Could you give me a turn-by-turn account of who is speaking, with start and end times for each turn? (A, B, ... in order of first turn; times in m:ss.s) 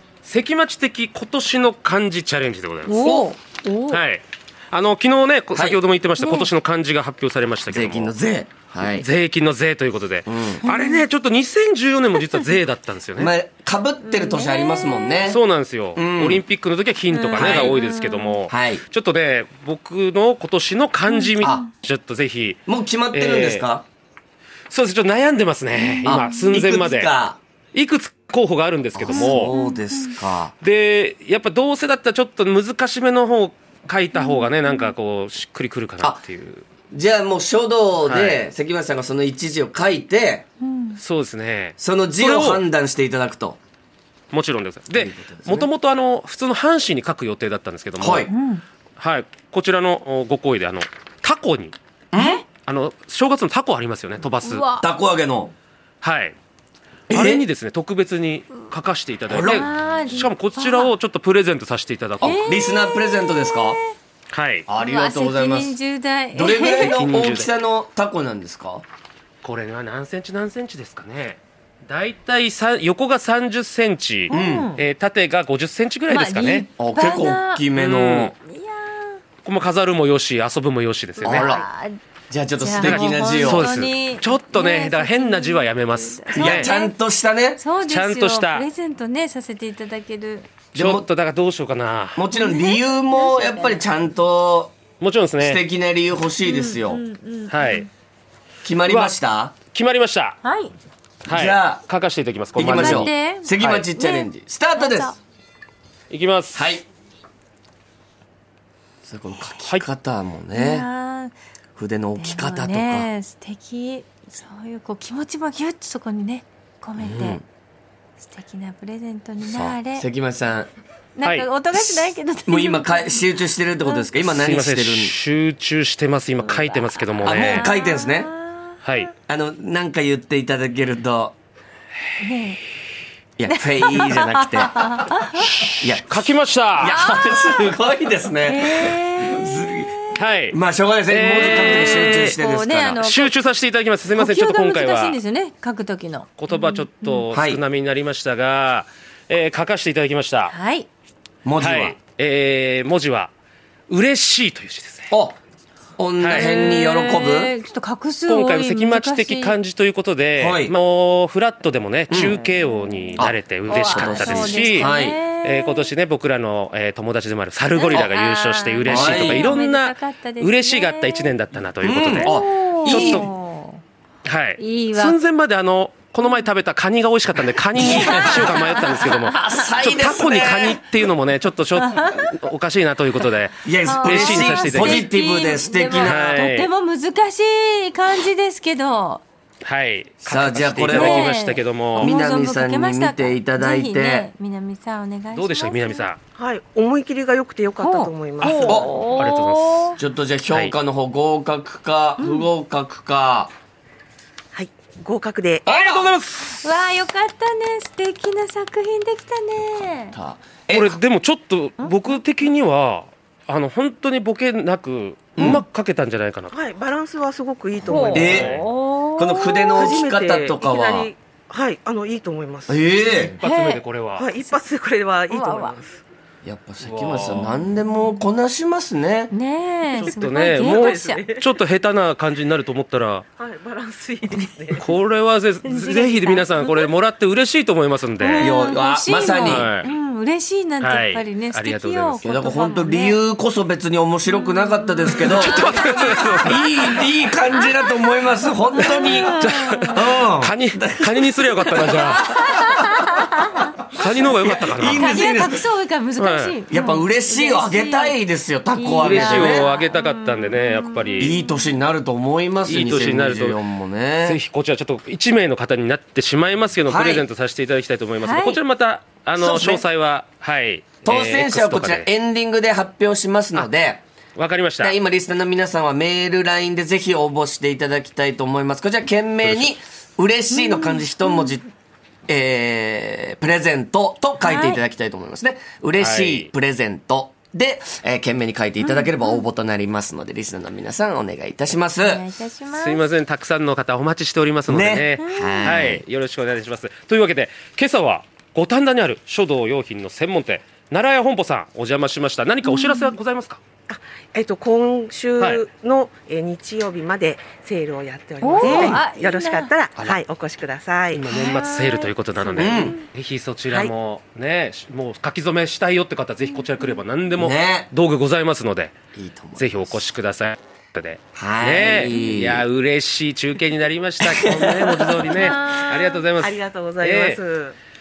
0:00.2-0:03.1 A
0:02.8-0:04.0 B
0:02.9-0:03.3 C
0:03.9-0:08.1 A
0:05.5-0:05.8 C
0:06.2-0:06.5 B
0:07.7-0:09.1 C
0:08.8-0:13.3 A
0:10.2-0:10.6 C
0:10.6-0:11.0 B
0:13.2-0:15.4 C
0:14.0-0:15.4 B
0:15.2-0:22.6 A
0:16.0-0:16.4 C
0:17.1-0:18.4 B
0:17.3-0:17.8 C
0:18.5-0:18.8 C
0:21.1-0:21.7 B
0:21.4-0:21.6 C
0:22.7-0:23.8 C
0:23.1-0:23.7 A
0:24.7-0:27.1 A
0:25.7-0:26.5 B
0:26.0-0:27.4 C
0:27.7-0:29.5 A
0:28.9-0:30.5 C
0:29.1-0:30.1 B
0:30.6-0:36.7 A
0:34.1-0:34.9 B
0:36.9-0:40.4 C
0:38.0-0:38.4 A
0:40.6-0:41.0 B
0:41.0-0:42.6 A
0:41.8-0:43.6 C
0:44.3-0:48.3 A
0:44.9-0:45.7 C
0:48.0-0:48.3 C
0:48.3-0:48.6 B
0:49.0-0:51.7 A
0:52.1-0:52.4 C
0:52.1-0:52.4 B
0:52.6-0:54.7 A
0:54.4-0:54.9 B
0:54.8-0:55.5 C
0:56.0-0:56.4 A
0:57.1-0:57.4 C
0:57.1-1:02.5 A
0:59.3-0:59.6 C
0:59.4-1:00.9 B
1:02.2-1:03.8 C
1:02.2-1:04.0 B
1:04.3-1:04.7 A
1:04.7-1:05.8 C
1:04.8-1:07.1 B
1:06.3-1:08.8 C
1:06.7-1:07.5 A
1:09.4-1:16.7 A
1:14.3-1:14.7 C
1:14.3-1:14.8 B
1:16.1-1:17.7 B
1:16.8-1:18.3 C
1:17.7-1:18.3 A
1:18.4-1:19.2 B
1:19.4-1:21.5 A
1:21.2-1:22.0 B
1:21.2-1:21.6 C
1:22.3-1:23.7 C
1:22.6-1:26.9 B
1:22.8-1:26.7 A
1:26.3-1:27.6 C
1:27.6-1:30.5 B
1:27.8-1:28.7 A
1:30.7-1:31.1 C
1:30.7-1:32.2 A
1:32.1-1:34.8 C
1:32.3-1:33.9 B
1:35.0-1:35.6 A
1:35.4-1:37.0 C
1:36.4-1:37.9 B
1:37.5-1:37.8 A
1:38.6-1:39.5 C
1:38.9-1:40.4 A
1:40.4-1:40.7 B
1:41.2-1:43.9 A
1:41.3-1:41.8 C
1:42.5-1:45.1 C
1:42.7-1:45.2 B
1:46.1-1:46.8 A
1:46.5-1:46.8 C
1:49.0-1:50.9 C
1:50.5-1:51.3 B
1:51.8-1:53.1 C
1:52.2-1:57.4 B
1:57.0-1:57.4 C
1:58.2-2:00.1 B
1:59.4-2:00.7 C
2:01.2-2:04.1 B
2:01.2-2:01.5 A
2:01.7-2:05.2 C
2:04.2-2:07.7 A
2:06.4-2:09.1 B
2:07.2-2:08.3 C
2:08.8-2:09.1 A
2:09.3-2:11.3 C
2:12.2-2:12.6 B
2:13.4-2:15.1 C
2:13.5-2:15.5 B
2:15.4-2:17.0 A
2:15.8-2:20.0 C
2:16.8-2:17.8 B
2:18.4-2:20.2 B
2:20.1-2:22.4 A
2:20.5-2:23.0 C
2:21.2-2:23.4 B
2:23.0-2:25.2 A
2:24.1-2:27.2 B
2:26.4-2:30.5 A
2:27.3-2:27.6 C
2:30.5-2:30.9 B
2:31.4-2:32.0 C
2:31.6-2:33.3 A
2:33.9-2:35.1 A
2:35.1-2:35.4 C
2:36.0-2:37.5 C
2:36.2-2:36.9 A
2:36.3-2:39.6 B
2:38.3-2:53.3 A
2:40.4-2:40.7 C
2:42.1-2:42.4 C
2:42.2-2:45.9 B
2:43.2-2:45.2 C
2:47.7-2:51.3 B
2:48.8-2:49.6 C
2:51.8-2:53.2 C
2:52.2-2:53.8 B
2:54.2-3:05.0 A
2:54.6-2:55.2 B
2:56.2-2:56.5 B
2:57.7-3:00.8 C
2:57.8-2:59.7 B
3:01.8-3:02.3 B
3:03.6-3:06.4 C
3:03.8-3:09.2 B
3:06.0-3:06.7 A
3:09.6-3:12.1 A
3:10.2-3:11.4 C
3:10.8-3:16.1 B
3:11.9-3:14.3 C
3:15.3-3:16.2 A
3:16.4-3:18.8 D
3:17.8-3:20.0 B
3:18.4-3:19.9 A
3:18.7-3:19.0 C
3:20.0-3:23.5 C
3:22.2-3:22.5 D
3:24.5-3:25.6 D
3:25.6-3:26.2 C
3:25.7-3:26.7 A
3:26.6-3:30.2 B
3:30.1-3:31.0 C
3:30.7-3:36.6 A
3:31.8-3:32.2 B
3:35.4-3:35.6 C
3:36.5-3:38.5 D
3:37.8-3:39.8 B
3:38.1-3:38.6 C
3:38.2-3:38.7 A
3:39.2-3:41.1 C
3:39.7-3:42.9 D
3:42.7-3:43.4 C
3:43.1-3:44.3 A
3:43.3-3:43.8 B
3:44.2-3:46.0 D
3:45.3-3:45.7 B
3:46.4-3:49.3 C
3:46.8-3:47.6 A
3:49.3-3:51.2 B
3:49.9-3:53.3 A
3:50.2-3:51.5 D
3:53.4-3:54.8 D
3:54.8-3:58.6 A
3:55.6-3:56.9 B
3:58.2-4:03.2 B
3:58.4-3:59.7 C
3:59.5-3:59.9 A
4:00.8-4:02.3 A
4:02.2-4:12.4 C
4:04.3-4:10.0 B
4:05.2-4:07.0 A
4:08.8-4:12.4 A
4:12.0-4:13.8 B
4:13.9-4:15.2 A
4:14.0-4:15.6 C
4:14.8-4:18.2 B
4:16.2-4:16.6 A
4:16.7-4:19.7 C
4:18.7-4:21.7 B
4:19.0-4:21.4 A
4:21.2-4:24.4 C
4:22.6-4:23.6 A
4:24.2-4:32.1 A
4:26.8-4:27.2 C
4:28.2-4:28.6 B
4:29.4-4:29.8 C
4:31.0-4:34.0 C
4:34.4-4:35.0 A
4:34.8-4:41.7 C
4:39.4-4:39.7 A
4:40.5-4:41.5 B
4:42.3-4:52.3 C
4:44.4-4:44.8 B
4:46.0-4:46.5 A
4:48.8-4:49.4 B
4:52.0-4:53.0 B
4:52.7-5:03.6 A
4:54.7-4:56.0 C
4:55.2-4:55.8 B
5:02.6-5:03.1 B
5:03.9-5:11.3 D
5:05.4-5:05.6 A
5:08.4-5:09.7 B
5:08.6-5:09.0 C
5:11.1-5:18.9 A
5:11.3-5:13.0 B
5:12.6-5:13.0 C
5:16.5-5:17.0 B
5:17.4-5:17.9 C
5:19.1-5:20.1 C
5:19.6-5:27.4 A
5:21.3-5:22.7 C
5:24.2-5:25.5 C
5:25.3-5:26.2 B
5:26.4-5:27.8 D